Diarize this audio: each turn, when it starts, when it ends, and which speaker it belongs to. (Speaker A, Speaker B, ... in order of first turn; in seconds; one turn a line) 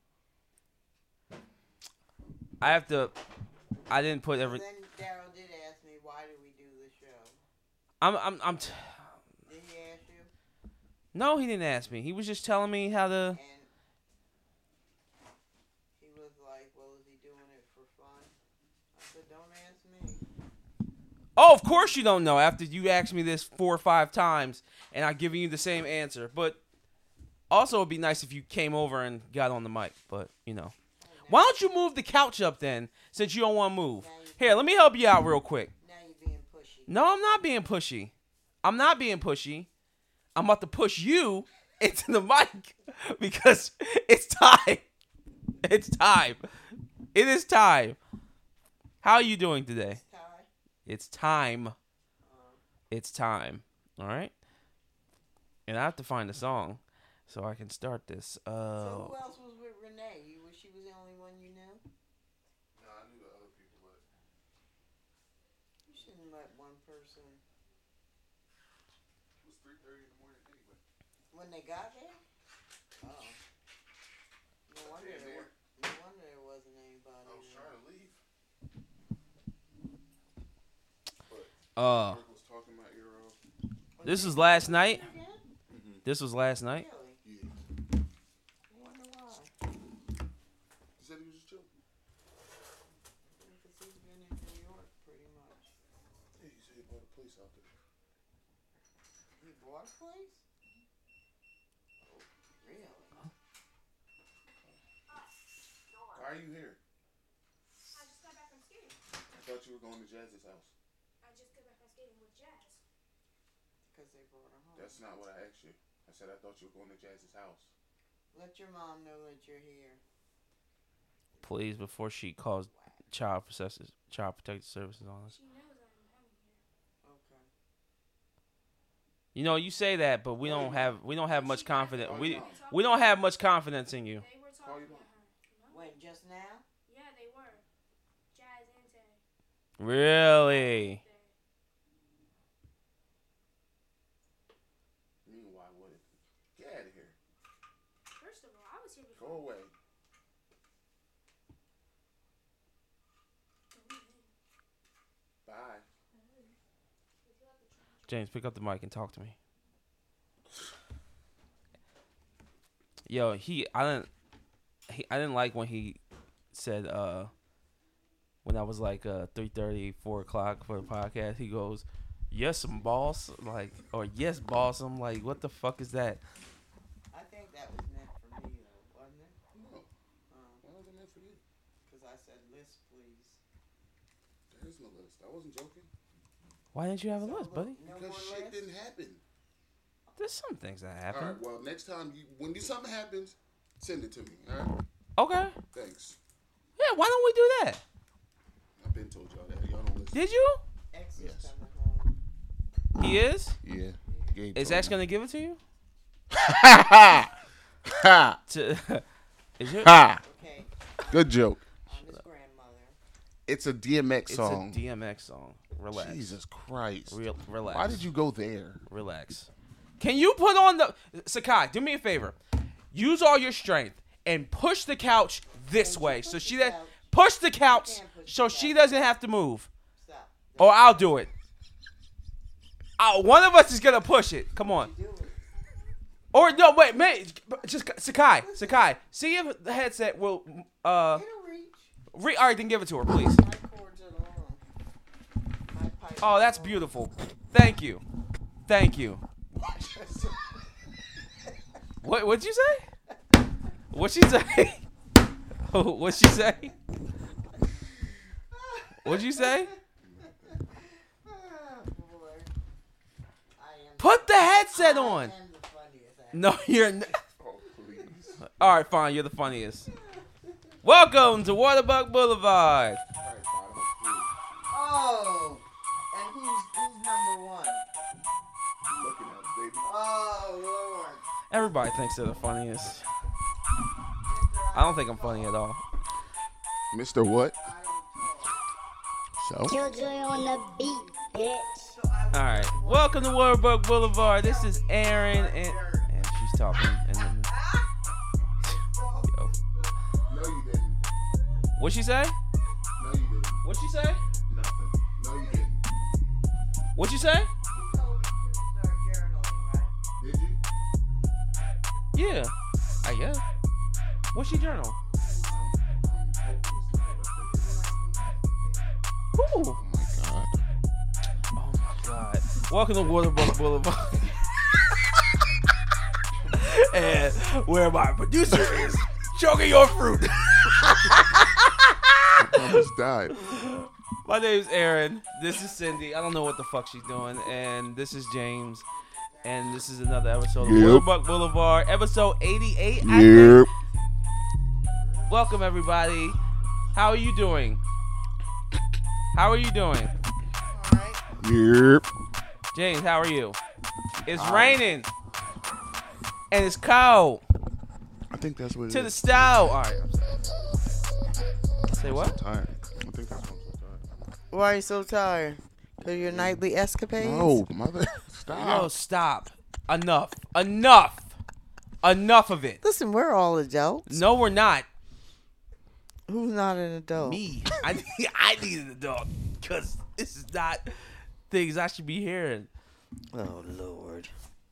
Speaker A: 2.6-3.1
Speaker A: 3.9-4.6
Speaker B: 4.4-7.4
Speaker A: 8.0-9.1
Speaker B: 9.5-10.3
Speaker A: 11.1-13.4
Speaker B: 13.3-13.7
Speaker B: 16.0-18.3
Speaker B: 18.9-20.2
Speaker A: 21.4-26.6
Speaker A: 27.5-30.8
Speaker B: 31.0-31.6
Speaker A: 31.3-35.7
Speaker B: 34.0-34.7
Speaker B: 35.8-37.0
Speaker A: 36.9-39.7
Speaker A: 40.4-44.9
Speaker A: 45.6-46.5
Speaker A: 47.1-48.0
Speaker A: 49.0-50.0
Speaker B: 50.0-50.5
Speaker A: 50.9-51.8
Speaker B: 52.2-52.6
Speaker A: 52.9-54.3
Speaker A: 55.7-59.2
Speaker B: 58.8-61.8
Speaker C: 62.8-64.0
Speaker B: 65.9-67.4
Speaker C: 69.4-70.8
Speaker B: 71.3-72.2
Speaker B: 73.0-73.4
Speaker B: 74.7-77.8
Speaker C: 74.9-75.5
Speaker C: 77.2-78.2
Speaker C: 81.3-83.4
Speaker A: 81.8-82.2
Speaker B: 84.0-85.4
Speaker A: 84.0-85.1
Speaker C: 85.7-86.0
Speaker A: 86.0-86.9
Speaker B: 86.7-87.2
Speaker C: 87.2-87.5
Speaker B: 88.7-89.5
Speaker C: 91.0-91.7
Speaker B: 93.4-95.7
Speaker C: 96.4-97.7
Speaker B: 99.4-100.4
Speaker B: 102.0-103.2
Speaker C: 106.2-106.8
Speaker D: 107.9-109.0
Speaker C: 109.4-110.7
Speaker D: 111.2-112.8
Speaker B: 113.9-115.1
Speaker C: 114.8-117.7
Speaker B: 118.3-120.0
Speaker A: 121.4-125.4
Speaker D: 125.3-126.6
Speaker B: 127.0-127.5
Speaker A: 129.3-134.3
Speaker C: 130.5-130.8
Speaker D: 130.6-133.1
Speaker C: 132.0-132.6
Speaker D: 134.2-136.0
Speaker C: 134.6-135.1
Speaker B: 135.7-136.7
Speaker D: 136.9-137.7
Speaker D: 138.3-139.2
Speaker A: 139.8-141.0
Speaker D: 140.2-141.3
Speaker C: 145.2-146.0
Speaker C: 146.6-147.1
Speaker D: 148.2-149.5
Speaker C: 149.2-149.7
Speaker D: 153.7-154.3
Speaker C: 155.4-155.8
Speaker D: 156.1-156.6
Speaker D: 157.2-158.3
Speaker A: 158.1-159.4
Speaker A: 163.1-164.1
Speaker A: 164.9-166.0
Speaker A: 166.5-167.3
Speaker A: 168.4-176.2
Speaker B: 177.1-179.4
Speaker C: 179.5-179.9
Speaker B: 180.3-180.7
Speaker C: 180.6-181.4
Speaker B: 181.9-183.4
Speaker C: 184.5-185.9
Speaker A: 186.7-187.8
Speaker B: 187.2-188.7
Speaker C: 187.9-189.2
Speaker A: 190.2-191.4
Speaker C: 191.1-194.7
Speaker A: 195.2-195.6
Speaker C: 195.7-196.2
Speaker A: 196.8-197.8
Speaker C: 198.8-200.2
Speaker A: 200.1-200.6
Speaker B: 200.9-202.2
Speaker C: 201.2-201.5
Speaker A: 203.0-203.6
Speaker C: 203.6-205.0
Speaker A: 204.6-205.6
Speaker C: 206.3-207.3
Speaker C: 207.9-208.4
Speaker A: 208.5-209.1
Speaker A: 209.6-209.9
Speaker C: 209.8-210.2
Speaker B: 210.2-213.0
Speaker C: 211.1-211.6
Speaker C: 213.5-214.8
Speaker A: 214.3-216.4
Speaker C: 215.9-218.8
Speaker A: 217.1-218.1
Speaker A: 218.9-222.4
Speaker A: 222.9-229.7
Speaker B: 225.8-226.9
Speaker B: 227.6-229.2
Speaker B: 229.9-231.3
Speaker A: 230.6-231.3
Speaker A: 233.0-234.9
Speaker B: 234.8-235.4
Speaker A: 236.3-241.2
Speaker B: 238.4-238.8
Speaker B: 241.1-241.9
Speaker A: 242.1-243.4
Speaker B: 243.3-244.6
Speaker B: 245.7-246.9
Speaker A: 246.2-248.0
Speaker A: 248.7-249.2
Speaker C: 250.0-250.2
Speaker A: 252.0-252.9
Speaker A: 253.9-254.8
Speaker A: 255.7-256.7
Speaker B: 258.6-262.5
Speaker A: 259.0-259.7
Speaker B: 263.6-266.5
Speaker A: 264.0-265.4
Speaker A: 266.3-267.2
Speaker C: 267.4-268.4
Speaker A: 268.4-269.9
Speaker B: 269.9-270.2
Speaker A: 270.8-273.0
Speaker C: 273.2-274.3
Speaker B: 274.7-277.8
Speaker C: 278.9-279.8
Speaker B: 279.8-281.2
Speaker A: 281.5-283.1
Speaker B: 284.3-285.5
Speaker A: 284.7-285.8
Speaker C: 286.9-287.6
Speaker B: 287.6-288.6
Speaker C: 289.4-289.8
Speaker E: 289.7-291.9
Speaker B: 289.9-290.2
Speaker B: 291.9-293.3
Speaker A: 292.3-297.5
Speaker B: 294.1-296.3
Speaker B: 297.5-297.9
Speaker B: 298.8-299.6
Speaker C: 300.3-301.0
Speaker A: 301.8-302.4
Speaker C: 303.0-303.6
Speaker A: 303.6-304.2
Speaker C: 304.5-305.8
Speaker A: 307.0-307.5
Speaker B: 307.7-309.9
Speaker C: 310.2-310.6
Speaker A: 312.1-313.4
Speaker A: 314.3-315.0
Speaker B: 315.0-316.2
Speaker C: 315.5-317.9
Speaker B: 317.4-319.0
Speaker A: 319.3-319.8
Speaker C: 319.8-320.6
Speaker A: 321.5-325.4
Speaker A: 326.5-338.9
Speaker C: 332.4-333.4
Speaker B: 338.8-339.8
Speaker A: 339.4-343.7
Speaker C: 340.6-341.1
Speaker C: 343.0-343.7
Speaker B: 345.0-345.3
Speaker A: 345.3-346.4
Speaker A: 346.9-347.8
Speaker A: 349.3-350.1
Speaker F: 350.8-351.1
Speaker C: 351.4-352.1
Speaker A: 352.7-353.6
Speaker C: 354.2-354.8
Speaker A: 354.3-355.1
Speaker A: 356.5-357.4
Speaker C: 358.3-359.7
Speaker A: 358.9-360.3
Speaker A: 361.9-362.4
Speaker C: 361.9-364.1
Speaker F: 364.5-367.6
Speaker C: 366.1-366.6
Speaker C: 367.2-368.9
Speaker A: 368.5-371.4
Speaker A: 372.0-372.8
Speaker F: 372.8-374.2
Speaker A: 374.1-374.9
Speaker F: 376.3-377.4
Speaker A: 377.2-382.7
Speaker F: 383.3-384.3